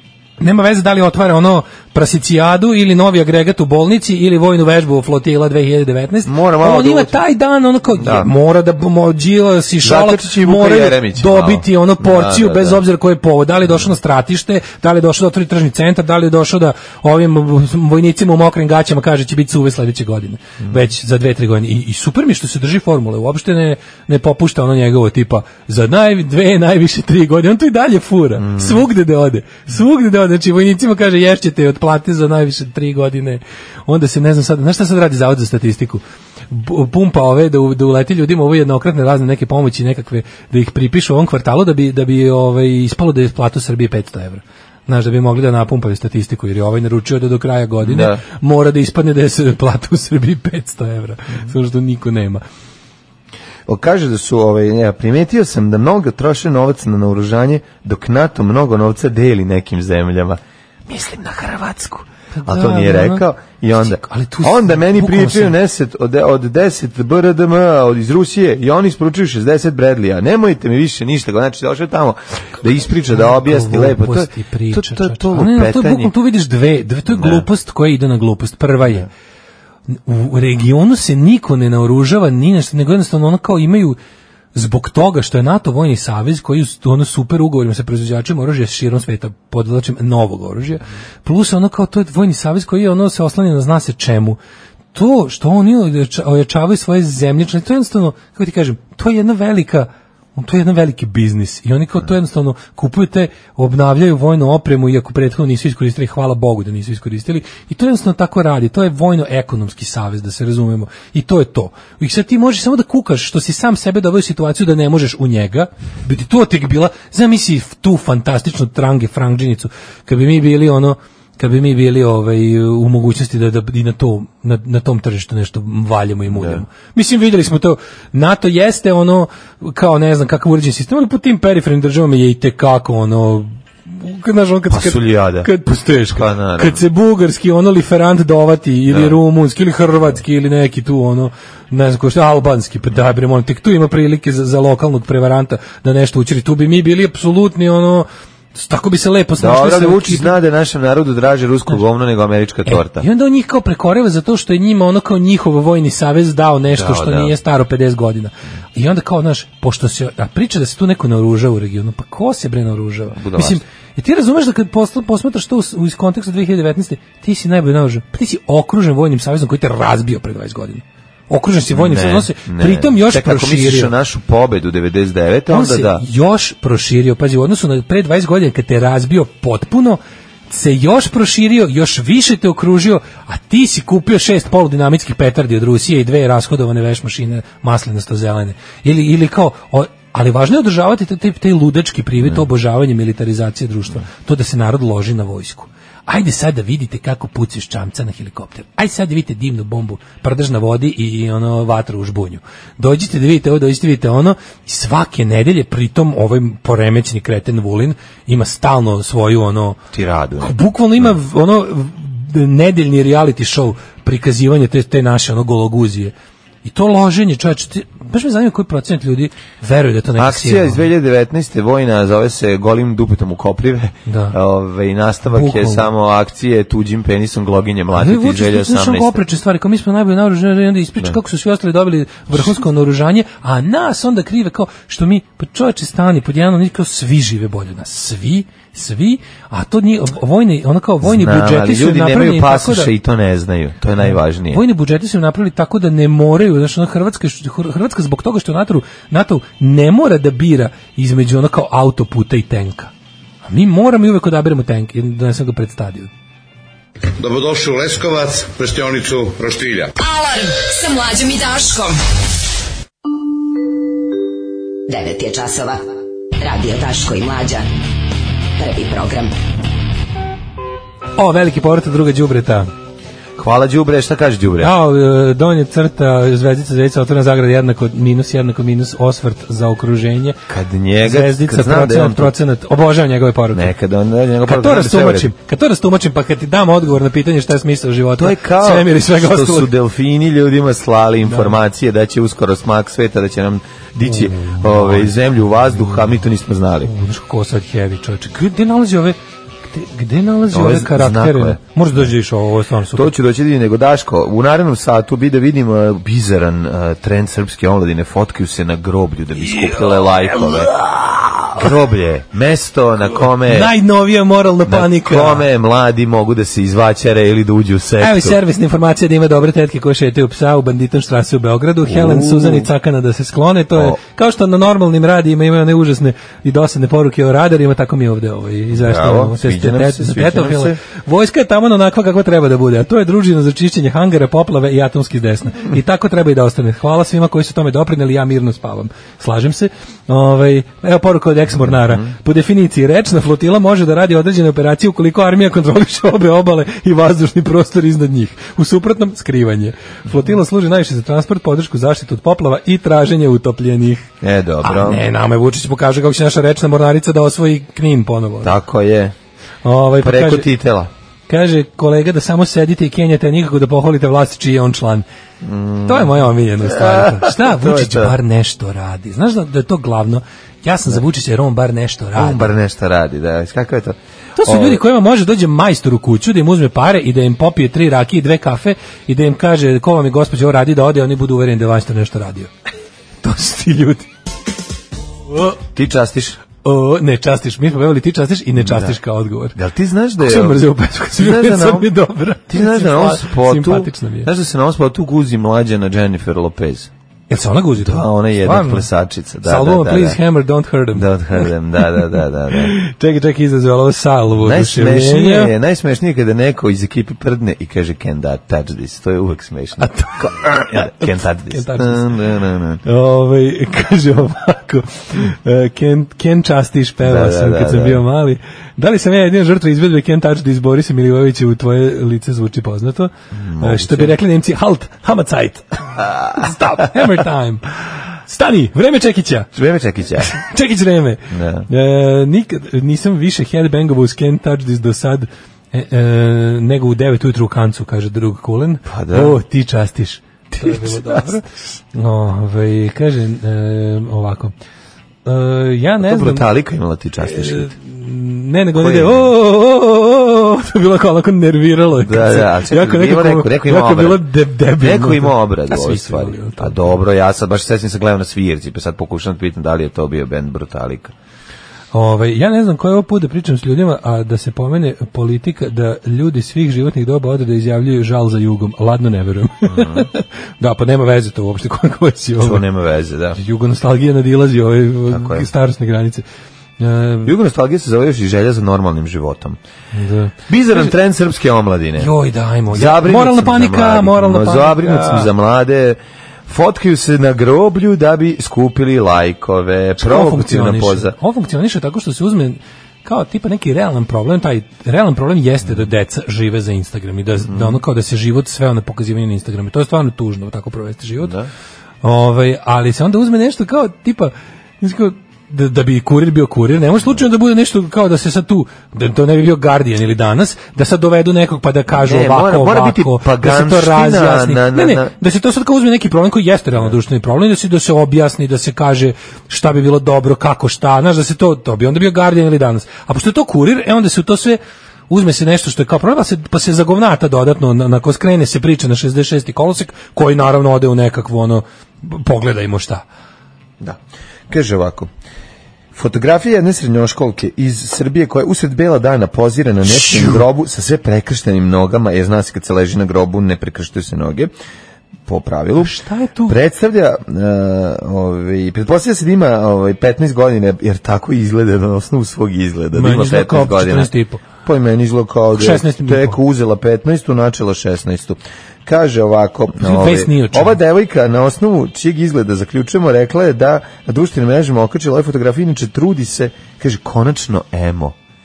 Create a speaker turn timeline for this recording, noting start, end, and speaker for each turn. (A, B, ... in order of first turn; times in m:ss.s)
0:00.4-0:52.4 A
0:06.2-0:07.2 B
0:08.0-0:08.3 B
0:09.8-0:12.8 B
0:28.4-0:28.8 B
0:47.8-0:48.2 B
0:53.7-1:16.1 B
1:02.3-1:03.2 A
1:03.8-1:05.5 A
1:13.1-1:19.1 A
1:17.1-1:17.4 B
1:19.9-1:24.0 A
1:24.5-1:34.4 A
1:34.9-2:30.4 A
2:06.3-2:06.6 B
2:14.7-2:15.5 B
2:16.1-2:16.8 B
2:18.9-2:19.2 B
2:29.4-2:33.0 B
2:32.7-2:53.9 A
2:36.7-2:37.3 B
2:43.1-2:43.6 B
2:51.7-2:56.0 B
2:55.5-3:29.8 A
3:29.9-3:31.1 B
3:30.4-3:36.1 A
3:36.6-3:40.8 A
3:40.2-3:49.2 B
3:44.1-3:44.4 A
3:45.3-3:45.9 A
3:48.0-4:02.9 A
4:01.0-4:04.6 B
4:04.0-4:12.9 A
4:13.4-4:16.1 A
4:17.2-4:19.8 C
4:20.0-4:22.0 D
4:24.9-4:25.8 E
4:26.4-4:27.6 E
4:28.6-4:29.3 E
4:31.2-4:32.7 A
4:33.4-4:34.7 B
4:34.6-4:40.4 A
4:40.5-4:42.3 B
4:41.0-4:43.7 A
4:43.5-4:45.3 B
4:44.4-4:49.7 A
4:48.2-4:56.9 B
4:51.2-4:51.5 A
4:54.0-4:56.1 A
4:56.8-4:59.2 A
4:59.7-5:03.1 A
5:00.5-5:02.1 B
5:02.9-5:10.7 B
5:09.4-5:11.7 A
5:11.5-5:13.7 B
5:13.4-5:15.4 A
5:14.6-5:18.4 B
5:18.0-5:54.1 A
5:21.8-5:22.7 B
5:28.7-5:30.8 B
5:41.6-5:42.0 B
5:54.2-5:55.0 B
5:54.6-5:58.5 A
5:58.4-5:59.1 B
5:59.6-6:00.5 A
6:00.0-6:00.9 B
6:01.3-6:05.0 A
6:05.4-6:08.1 B
6:05.9-6:12.5 A
6:12.2-6:14.8 B
6:14.4-6:22.5 A
6:23.2-6:24.1 A
6:25.7-6:26.4 B
6:26.6-6:29.5 A
6:28.6-6:29.0 B
6:29.5-6:31.9 B
6:30.2-6:34.3 A
6:32.5-6:36.9 B
6:37.3-6:38.9 A
6:37.8-6:40.2 B
6:39.4-6:45.5 A
6:40.9-6:42.7 B
6:44.3-6:52.8 B
6:49.8-6:52.1 A
6:52.8-7:05.8 A
6:57.0-6:58.0 B
7:03.3-7:04.2 B
7:06.0-7:06.3 B
7:06.4-7:09.5 A
7:09.5-7:10.3 B
7:10.2-7:24.5 A
7:11.3-7:11.7 B
7:18.8-7:19.4 B
7:20.6-7:21.3 B
7:25.2-7:26.5 A
7:26.0-7:27.7 B
7:27.2-7:36.9 A
7:28.8-7:29.3 B
7:32.0-7:34.2 B
7:34.8-7:41.1 B
7:41.9-7:52.6 A
7:49.7-7:50.1 B
7:52.4-7:53.4 B
7:53.4-7:56.2 A
7:55.1-7:55.5 B
7:56.8-7:57.3 A
7:57.2-7:59.6 B
7:59.9-8:00.9 A
8:00.5-8:02.1 B
8:02.0-8:05.3 A
8:02.7-8:11.1 B
8:10.0-8:21.3 A
8:17.4-8:17.8 B
8:21.2-8:21.5 B
8:22.0-8:53.0 A
8:31.9-8:35.1 B
8:53.8-8:55.1 B
8:55.9-9:04.5 B
8:59.8-9:00.4 A
9:05.2-9:05.9 B
9:05.8-9:06.5 A
9:06.5-9:28.2 B
9:12.9-9:14.4 A
9:15.5-9:16.4 A
9:19.8-9:20.8 A